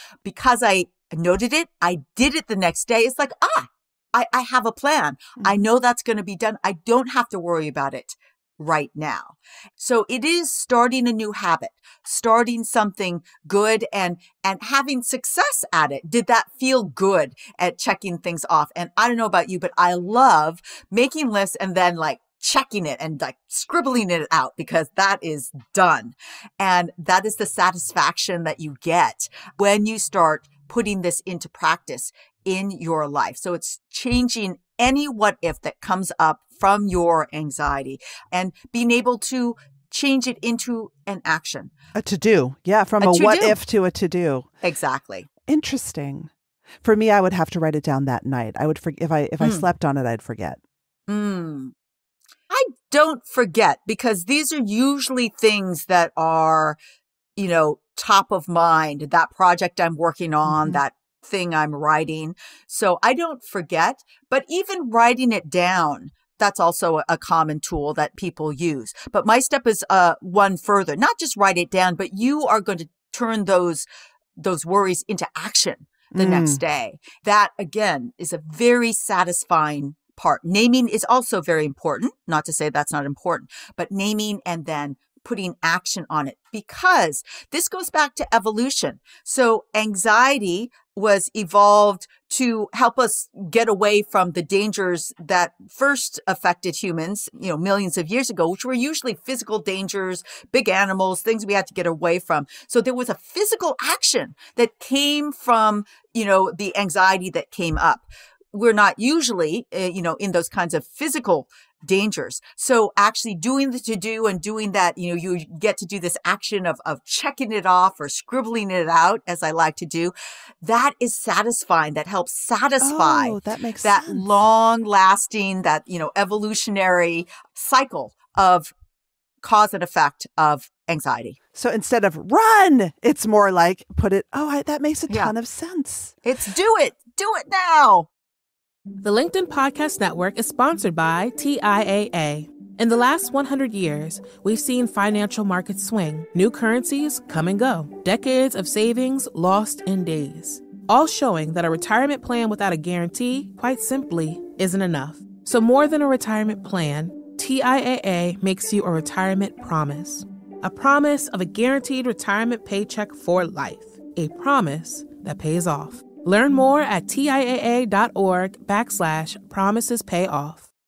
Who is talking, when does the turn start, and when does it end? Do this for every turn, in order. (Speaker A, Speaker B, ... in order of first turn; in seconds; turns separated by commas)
Speaker A: 0.2-41.7, Speaker B: 41.9-44.5, Speaker A: 43.0-43.6, Speaker A: 44.6-45.3, Speaker B: 45.5-46.3, Speaker B: 46.8-50.6, Speaker A: 49.4-49.6, Speaker A: 51.1-51.7, Speaker A: 52.5-56.8, Speaker A: 57.4-128.7, Speaker B: 60.5-60.8, Speaker B: 76.1-76.6, Speaker B: 122.8-124.3, Speaker A: 129.4-131.4, Speaker B: 131.5-136.1, Speaker A: 136.2-138.1, Speaker C: 139.0-170.7